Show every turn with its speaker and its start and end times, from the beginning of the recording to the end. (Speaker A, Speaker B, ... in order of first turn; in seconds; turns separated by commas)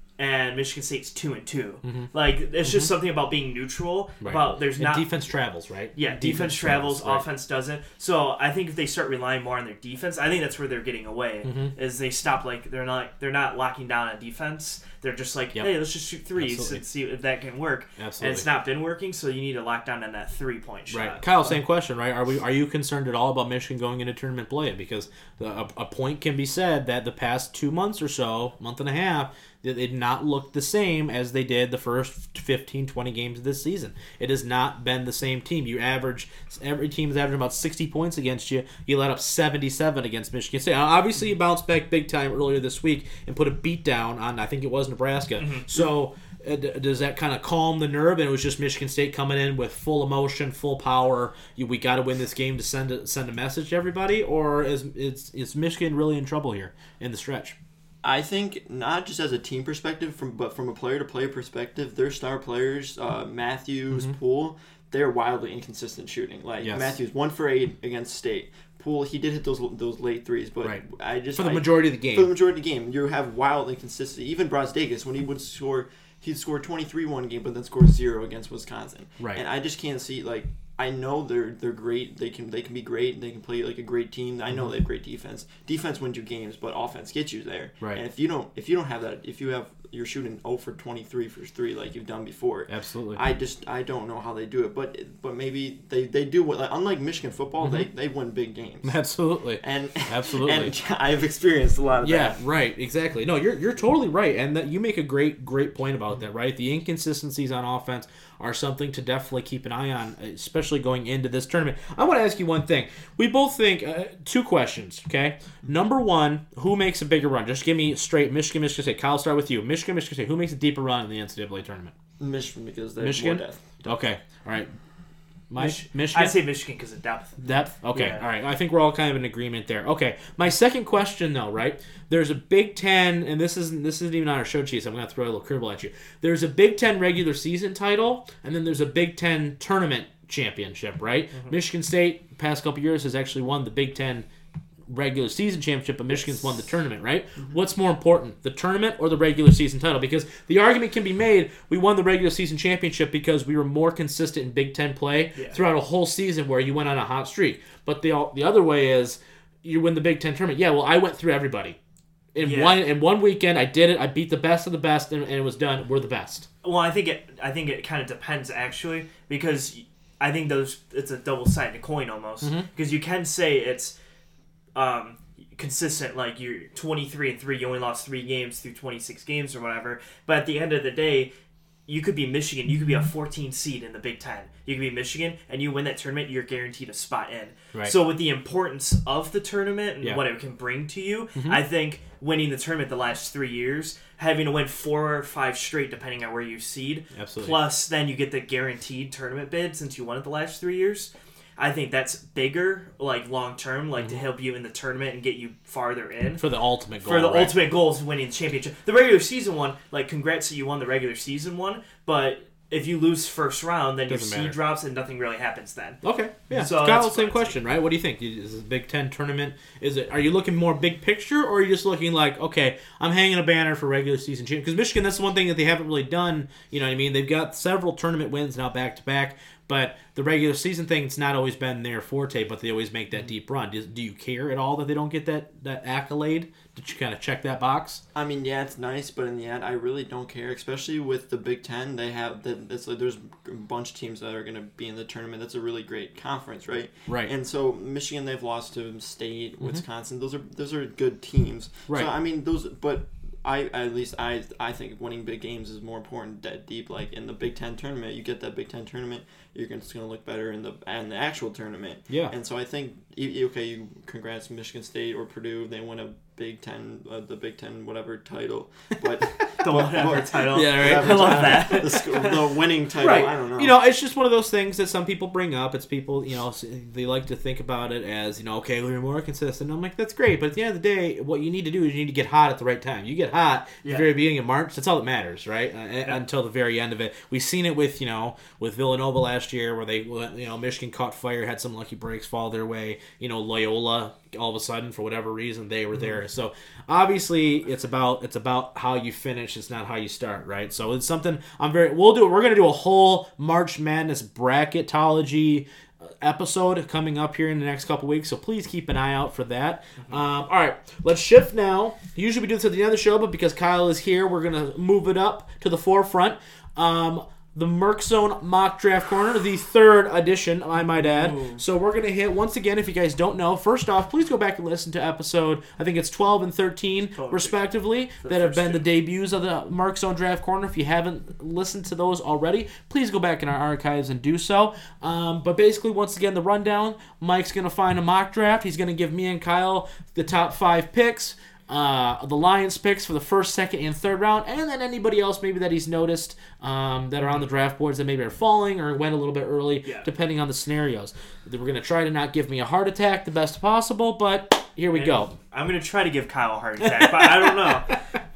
Speaker A: 0.2-5.0, Speaker B: 1.8-2.1, Speaker B: 2.6-2.9, Speaker B: 4.2-7.2, Speaker A: 5.9-21.5, Speaker B: 11.4-11.7, Speaker B: 16.4-16.8, Speaker B: 18.0-18.4, Speaker B: 20.9-57.5, Speaker A: 45.4-45.7, Speaker C: 58.0-99.0, Speaker B: 66.6-66.9, Speaker B: 71.3-72.3, Speaker B: 92.7-93.2, Speaker B: 97.6-97.9, Speaker B: 98.8-100.7, Speaker C: 99.6-102.4, Speaker B: 102.0-121.9, Speaker C: 122.2-124.0, Speaker B: 123.0-124.7, Speaker B: 125.5-126.3, Speaker A: 125.5-127.4, Speaker B: 127.4-144.3, Speaker A: 127.9-128.2, Speaker B: 144.9-161.8, Speaker B: 162.3-166.5, Speaker A: 162.4-162.8, Speaker A: 166.6-173.9, Speaker B: 172.4-172.7, Speaker A: 174.7-181.3, Speaker A: 181.9-206.4, Speaker B: 191.3-191.6, Speaker B: 197.1-197.6, Speaker B: 206.4-207.6, Speaker A: 207.0-217.6, Speaker B: 214.1-214.6, Speaker B: 216.0-238.0, Speaker C: 238.1-273.7, Speaker A: 269.6-272.4, Speaker B: 269.7-271.8, Speaker B: 273.0-355.4, Speaker A: 283.8-284.1, Speaker A: 321.0-321.6, Speaker A: 327.1-327.6, Speaker A: 328.2-328.8, Speaker A: 354.9-358.0, Speaker B: 356.8-357.7